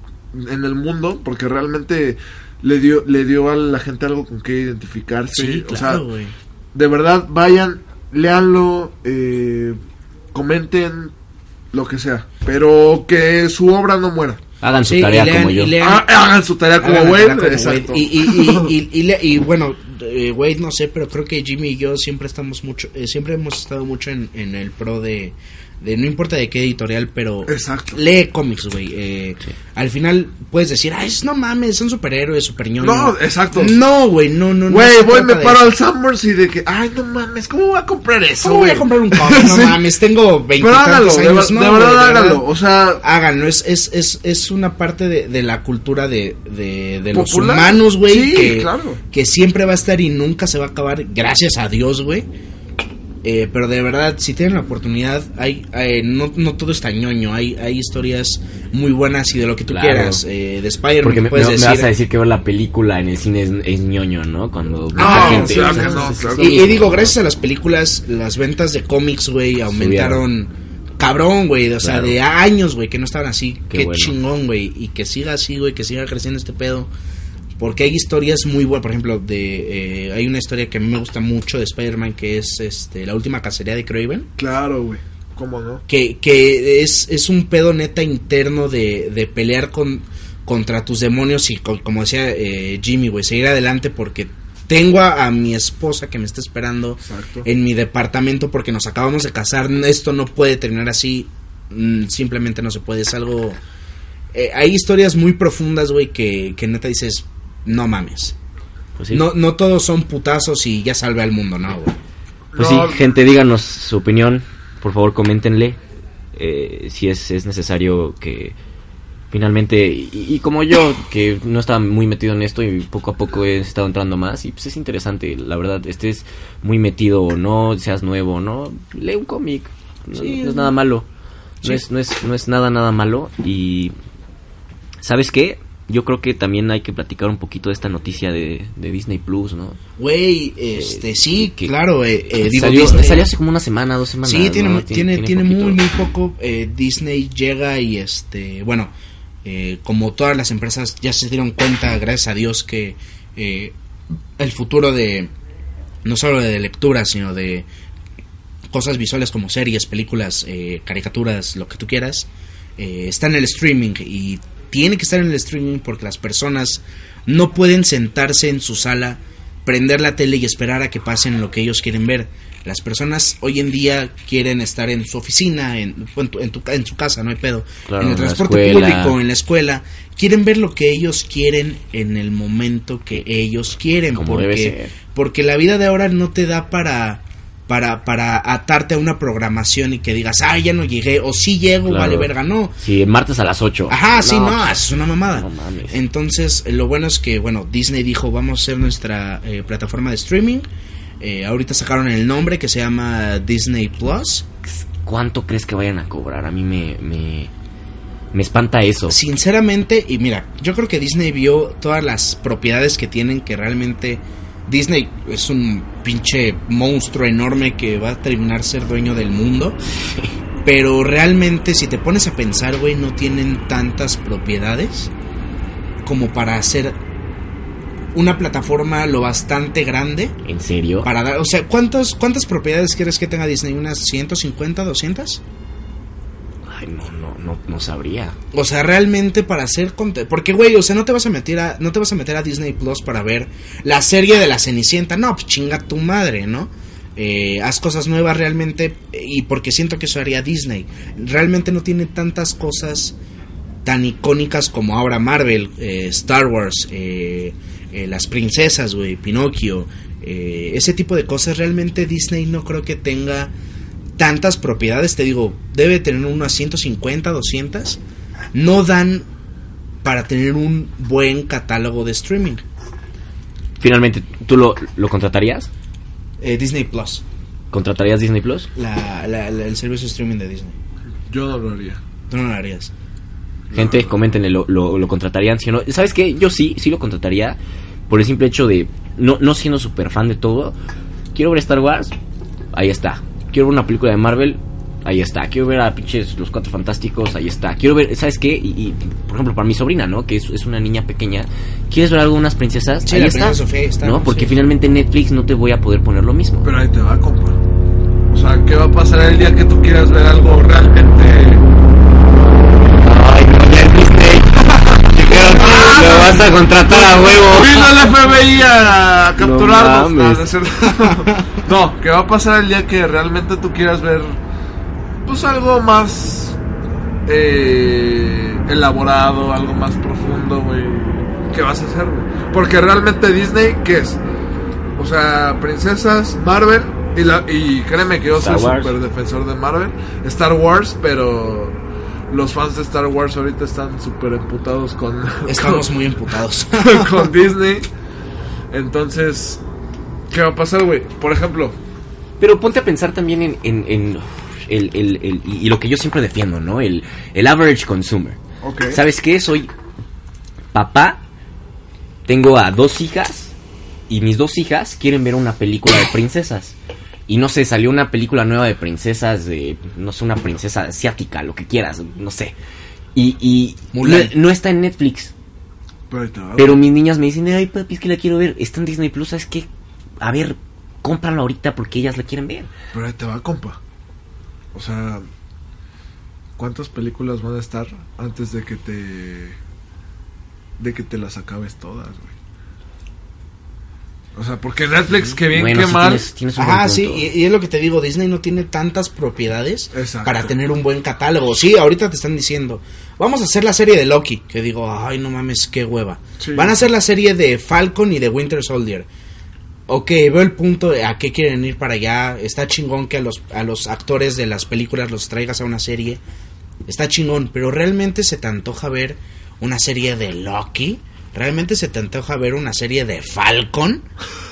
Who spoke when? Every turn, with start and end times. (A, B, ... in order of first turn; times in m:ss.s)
0:00.3-0:06.0 A
0:05.3-0:06.3 B
0:06.7-0:09.8 A
0:10.3-0:11.1 A
0:11.7-0:14.4 A
0:14.6-0:15.7 C
0:14.8-0:16.1 B
0:15.8-0:18.7 A
0:16.8-0:35.8 B
0:27.4-0:28.0 A
0:32.8-0:33.8 A
0:34.7-0:39.8 A
0:38.4-0:42.4 B
0:40.6-0:43.0 A
0:43.0-0:52.3 B
0:47.1-0:49.0 A
0:53.2-1:01.9 B
0:59.7-1:00.2 C
1:01.0-1:07.1 C
1:04.9-1:06.7 A
1:04.9-1:16.9 B
1:09.7-1:10.2 C
1:11.8-1:12.2 C
1:13.7-1:14.2 C
1:17.6-1:24.3 B
1:24.4-1:25.8 A
1:25.9-1:43.6 B
1:37.0-1:37.5 A
1:44.3-1:48.3 B
1:49.0-1:49.2 C
1:49.1-1:52.0 B
1:52.5-1:53.0 A
1:52.6-1:55.8 C
1:56.3-1:58.6 C
1:59.3-2:11.0 C
2:10.1-2:10.7 B
2:11.6-2:13.9 C
2:15.0-2:19.8 C
2:20.0-2:23.3 B
2:20.8-2:21.7 C
2:22.4-2:25.8 C
2:24.2-2:28.9 B
2:29.4-2:33.7 B
2:34.4-2:35.3 B
2:36.0-2:37.7 B
2:38.7-3:12.7 B
2:57.9-2:59.2 C
3:04.1-3:04.9 C
3:11.9-3:14.7 C
3:13.9-3:20.6 B
3:15.3-3:16.0 C
3:21.2-3:24.4 B
3:24.6-3:27.5 C
3:28.3-3:29.2 C
3:29.1-3:39.8 B
3:40.6-3:45.1 B
3:46.0-3:47.0 B
3:48.1-3:50.4 B
3:50.4-3:51.1 C
3:51.0-3:55.4 B
3:56.6-3:58.4 C
3:58.5-4:13.1 B
4:13.8-4:23.5 B
4:24.2-4:28.0 B
4:28.5-4:29.3 B
4:30.0-4:32.6 B
4:33.8-4:35.7 C
4:36.4-4:37.2 B
4:37.7-4:38.7 C
4:38.8-4:40.7 B
4:41.2-4:42.0 A
4:42.3-4:42.9 B
4:43.7-4:44.2 A
4:43.7-4:50.8 C
4:51.3-4:52.1 C
4:52.7-5:06.7 C
5:03.0-5:04.7 B
5:06.6-5:07.6 A
5:08.3-5:11.6 A
5:13.0-5:17.9 C
5:14.6-5:24.4 A
5:19.4-5:20.5 C
5:25.2-5:26.6 A
5:27.2-5:34.2 A
5:35.0-5:41.8 A
5:38.3-5:38.9 C
5:42.3-5:45.9 A
5:45.4-5:47.3 B
5:46.8-5:47.9 A
5:48.7-5:49.6 A
5:50.3-5:51.8 A
5:52.4-5:58.4 C
5:58.6-5:59.0 A
5:58.9-5:59.7 C
6:00.7-6:01.2 C
6:02.3-6:03.5 C
6:04.1-6:06.7 C
6:07.3-6:12.6 C
6:13.1-6:15.3 C
6:13.9-6:14.3 B
6:16.1-6:16.8 A
6:16.6-6:19.7 C
6:20.2-6:22.7 C
6:22.9-6:23.8 A
6:24.7-6:25.2 A
6:26.6-6:29.6 A
6:30.8-6:32.3 A
6:34.3-6:36.3 A
6:35.4-6:37.3 C
6:36.6-6:49.1 B
6:39.9-6:40.5 A
6:46.4-6:46.8 A
6:49.9-6:56.2 B
6:56.9-7:04.0 B